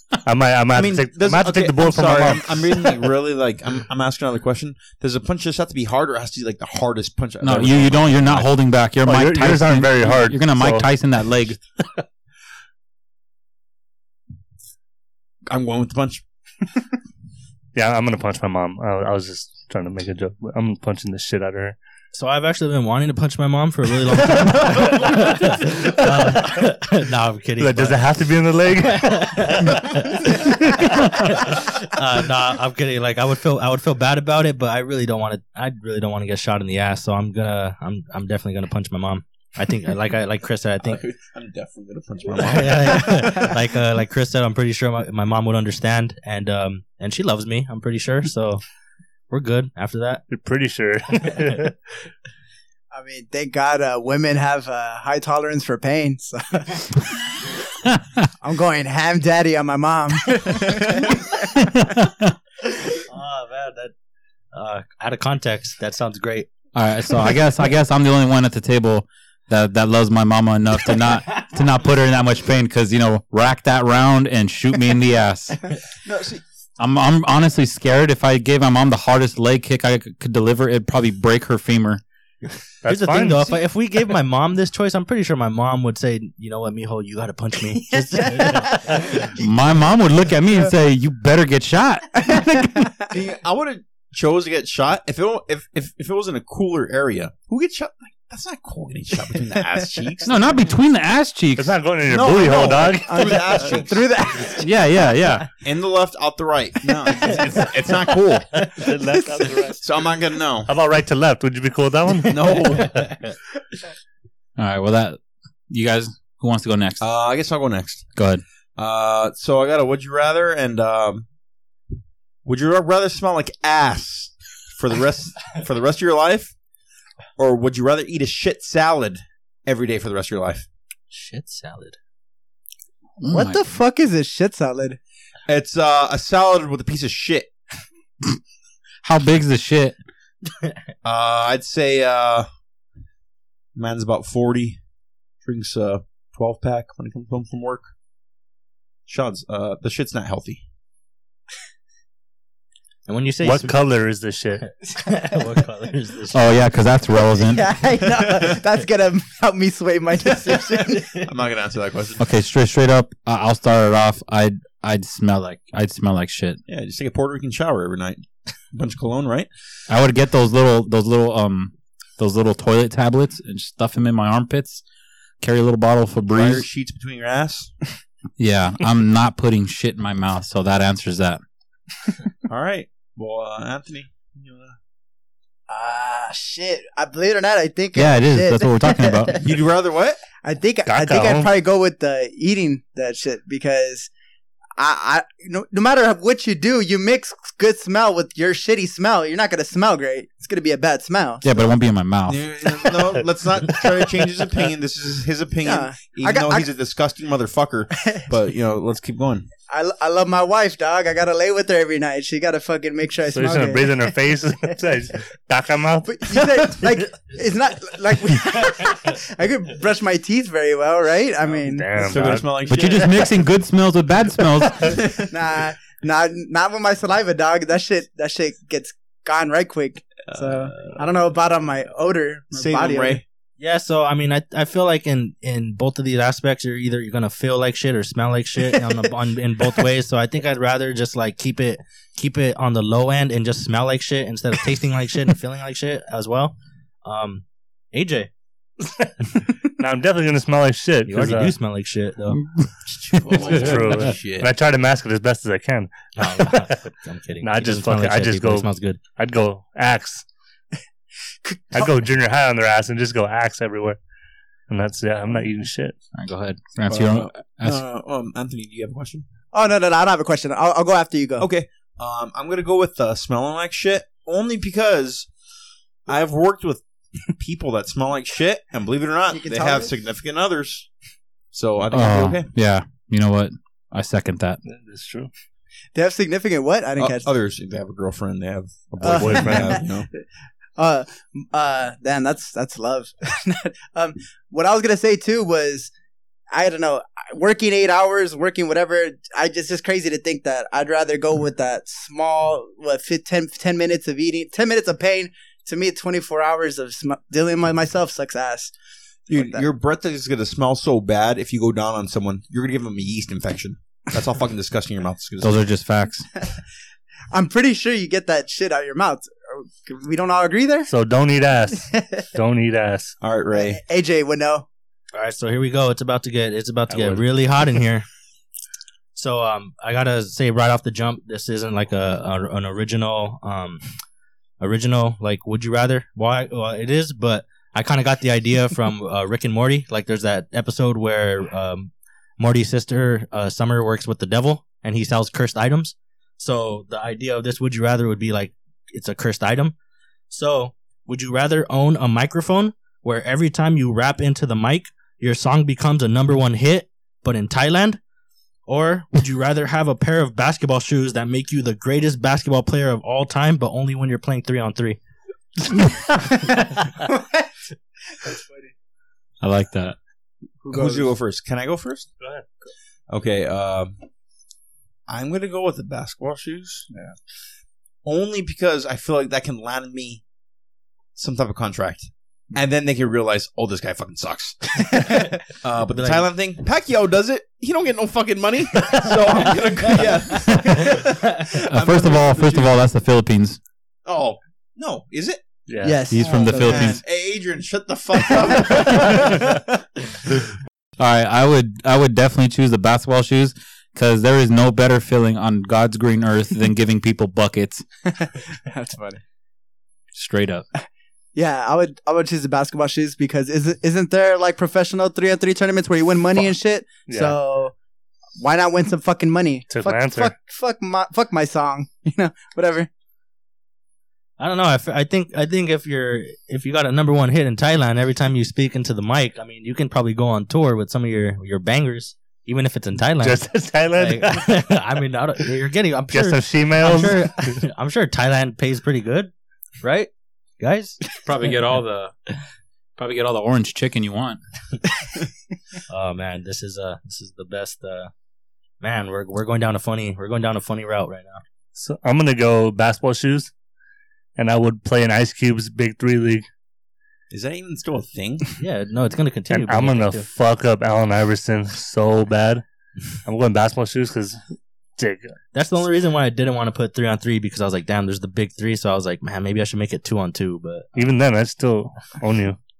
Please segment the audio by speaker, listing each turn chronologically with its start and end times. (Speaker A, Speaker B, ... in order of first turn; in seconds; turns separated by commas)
Speaker A: 0.2-2.6, Speaker B: 0.7-8.5, Speaker C: 7.4-11.6, Speaker A: 9.1-10.9, Speaker B: 15.5-16.2, Speaker A: 17.7-21.8, Speaker D: 22.1-28.0, Speaker A: 25.1-26.6, Speaker A: 27.6-31.4, Speaker D: 28.9-41.0, Speaker B: 40.8-43.5, Speaker D: 42.3-48.6, Speaker D: 49.3-50.2, Speaker A: 50.3-51.7, Speaker E: 52.9-57.3, Speaker E: 58.4-61.5, Speaker C: 61.5-62.3, Speaker D: 63.0-63.9, Speaker D: 64.5-66.5, Speaker C: 66.7-75.7, Speaker B: 76.0-76.4, Speaker C: 76.8-82.0, Speaker A: 82.8-83.6, Speaker D: 82.8-89.2, Speaker E: 88.3-89.0, Speaker C: 89.3-92.9, Speaker E: 92.3-93.0, Speaker B: 93.1-100.3, Speaker C: 100.2-101.8, Speaker A: 101.6-103.7, Speaker B: 102.1-104.0, Speaker E: 103.0-104.8, Speaker C: 104.6-105.5, Speaker B: 105.6-108.6, Speaker E: 106.9-107.3, Speaker A: 108.6-109.8, Speaker E: 108.8-109.7, Speaker B: 109.8-110.7, Speaker A: 110.7-112.9, Speaker B: 112.3-113.1, Speaker C: 114.6-117.0, Speaker B: 117.0-118.1, Speaker C: 118.2-118.4, Speaker B: 118.8-121.2, Speaker B: 122.4-126.5, Speaker B: 127.4-130.7, Speaker D: 131.1-132.0, Speaker C: 133.2-133.8, Speaker E: 133.2-135.0, Speaker B: 135.5-137.5, Speaker C: 139.0-139.9, Speaker B: 141.0-142.5, Speaker B: 143.8-144.8, Speaker B: 145.4-147.9, Speaker B: 149.1-150.6, Speaker D: 153.1-153.8, Speaker A: 153.4-154.7, Speaker D: 154.6-156.7, Speaker C: 156.3-157.7, Speaker E: 157.4-161.2, Speaker B: 158.2-158.5, Speaker B: 160.6-162.2, Speaker C: 162.2-166.6, Speaker B: 166.7-169.5, Speaker C: 169.9-174.8, Speaker C: 175.4-176.7, Speaker B: 176.3-177.7, Speaker C: 178.4-181.4, Speaker B: 182.5-184.8, Speaker E: 185.7-189.5, Speaker C: 187.9-189.4, Speaker B: 189.4-190.2, Speaker E: 190.4-194.1, Speaker A: 190.8-191.5, Speaker E: 194.8-201.5, Speaker C: 201.4-202.4, Speaker B: 202.3-209.4, Speaker E: 205.6-206.7, Speaker E: 209.7-214.2, Speaker A: 213.3-216.4, Speaker E: 216.1-222.1, Speaker A: 221.6-222.5, Speaker B: 222.0-223.4, Speaker C: 222.7-224.9, Speaker B: 224.8-225.3, Speaker E: 225.3-233.2, Speaker B: 230.3-230.9, Speaker B: 232.5-233.2, Speaker D: 233.6-248.3, Speaker A: 249.7-251.5, Speaker D: 251.1-252.4, Speaker C: 252.3-252.7, Speaker B: 252.9-254.5, Speaker A: 253.4-256.8, Speaker D: 256.1-259.0, Speaker A: 257.4-260.2, Speaker E: 261.4-261.9, Speaker A: 261.7-264.0, Speaker A: 264.7-265.9, Speaker C: 266.1-267.8, Speaker B: 266.9-269.3, Speaker E: 269.5-271.5, Speaker B: 271.4-275.3, Speaker B: 276.1-276.8, Speaker B: 277.4-280.9, Speaker E: 279.3-279.9, Speaker B: 281.5-282.5, Speaker C: 281.9-284.6, Speaker A: 284.6-285.3, Speaker E: 285.9-287.3, Speaker B: 287.0-290.1, Speaker E: 289.0-289.9, Speaker A: 289.0-289.8, Speaker E: 290.8-295.9, Speaker E: 296.5-308.7, Speaker B: 309.3-315.6, Speaker E: 309.3-309.6, Speaker C: 315.4-316.3, Speaker E: 317.3-320.9, Speaker A: 320.9-323.2, Speaker E: 321.9-322.2, Speaker B: 323.2-323.8, Speaker E: 323.5-324.7, Speaker D: 325.1-328.1, Speaker A: 326.9-327.3, Speaker D: 329.1-333.8, Speaker D: 334.6-349.8, Speaker D: 350.3-358.0, Speaker D: 358.7-365.0, Speaker E: 366.2-367.5, Speaker E: 368.1-368.7, Speaker C: 369.4-370.0, Speaker E: 370.6-371.1, Speaker B: 370.7-372.1, Speaker B: 373.1-373.9, Speaker B: 375.1-376.9, Speaker B: 378.0-380.2, Speaker B: 381.1-392.8, Speaker E: 384.9-385.3, Speaker D: 385.9-386.3, Speaker C: 390.5-390.9, Speaker C: 391.7-393.6, Speaker B: 394.1-395.4, Speaker A: 395.7-396.0, Speaker E: 395.8-397.0, Speaker C: 396.1-397.0, Speaker B: 396.2-399.4, Speaker E: 398.3-399.6, Speaker C: 401.0-407.8, Speaker E: 408.2-409.2, Speaker C: 410.1-410.6, Speaker E: 411.4-417.7, Speaker A: 417.1-417.4, Speaker E: 418.4-422.9, Speaker A: 419.7-420.3, Speaker D: 424.4-441.1, Speaker A: 433.2-434.4, Speaker A: 436.1-437.6, Speaker C: 441.2-442.1, Speaker C: 443.0-444.4, Speaker D: 445.9-448.1, Speaker D: 448.8-451.4, Speaker A: 451.8-453.5, Speaker A: 454.4-456.5, Speaker B: 457.3-458.5, Speaker D: 458.6-460.3, Speaker A: 459.5-462.6, Speaker A: 463.2-464.4, Speaker A: 465.0-465.3, Speaker D: 465.5-471.1, Speaker A: 470.9-472.6